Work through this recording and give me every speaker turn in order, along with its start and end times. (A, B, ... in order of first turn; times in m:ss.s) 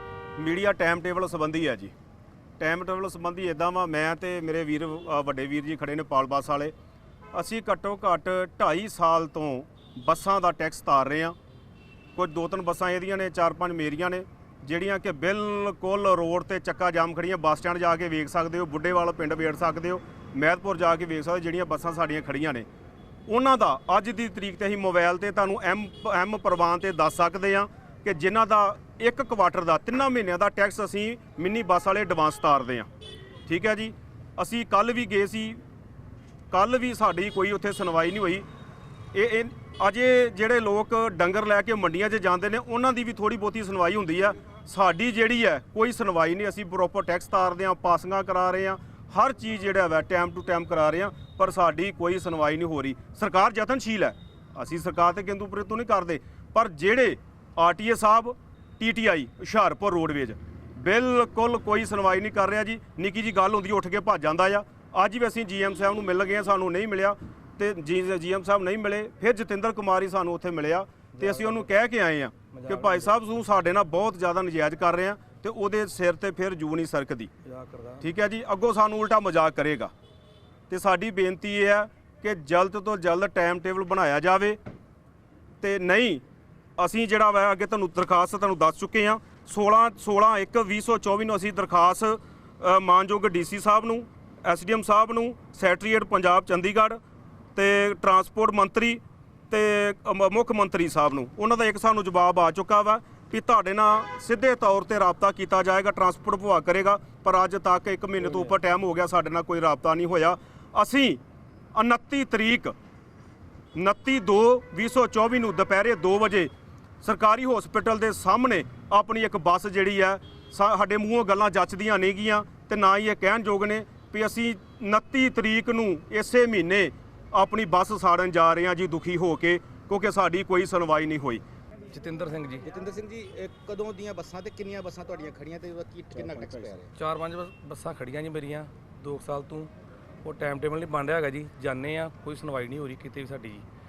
0:00.4-0:01.9 A
0:02.6-0:06.7 A
0:07.3-0:11.4 A
0:12.2-0:22.6 A
0:23.3-0:32.9 A
0:33.5-0:35.6 A
0:36.5-0:38.4 A
0:39.1-1:17.3 A
1:11.1-1:11.7 B
1:12.5-1:13.1 B
1:17.4-1:18.1 B
1:18.0-1:19.9 A
1:20.7-1:24.6 A
1:25.6-1:26.2 A
1:26.8-1:37.0 A
1:37.5-1:51.2 A
1:51.7-1:52.7 A
1:53.8-1:56.5 A
1:57.0-2:11.4 A
2:11.9-2:12.6 B
2:12.6-2:16.9 C
2:16.2-2:19.7 B
2:20.2-2:23.6 B